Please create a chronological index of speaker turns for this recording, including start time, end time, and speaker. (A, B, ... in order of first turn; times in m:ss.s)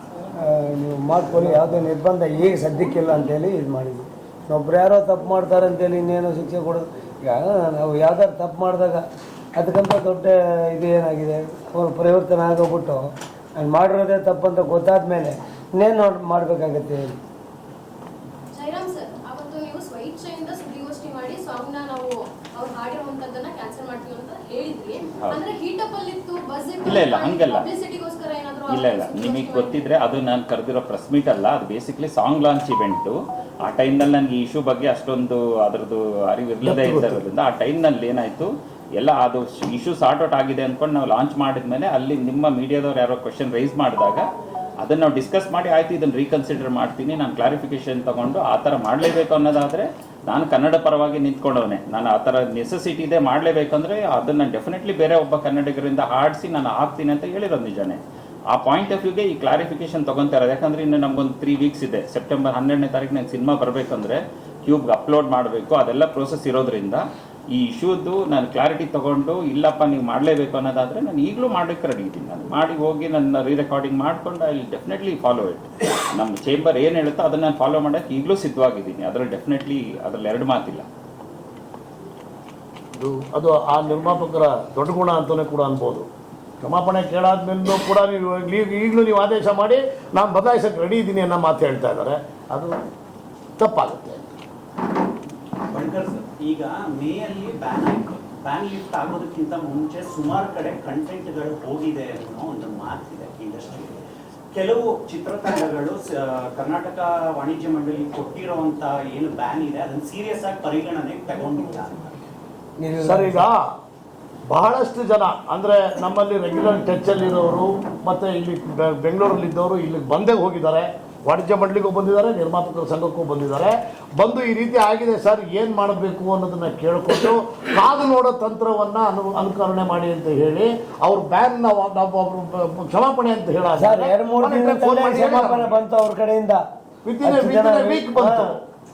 0:00.4-0:09.0 A
0:09.5-0:17.2 A
0:18.5-0:29.8 B
0:25.2-0:25.5 C
0:26.8-0:27.7 C
0:28.7-0:44.3 C
0:36.6-0:37.2 D
0:44.8-0:58.0 C
0:58.5-1:20.9 C
1:22.9-1:26.1 D
1:26.6-1:32.7 D
1:33.6-1:34.4 D
1:35.7-1:44.0 E
1:44.5-1:52.1 E
1:52.8-1:53.5 A
1:53.0-1:53.6 D
1:54.5-2:15.8 D
2:13.8-2:16.6 A
2:17.0-2:18.6 D
2:17.2-2:18.6 A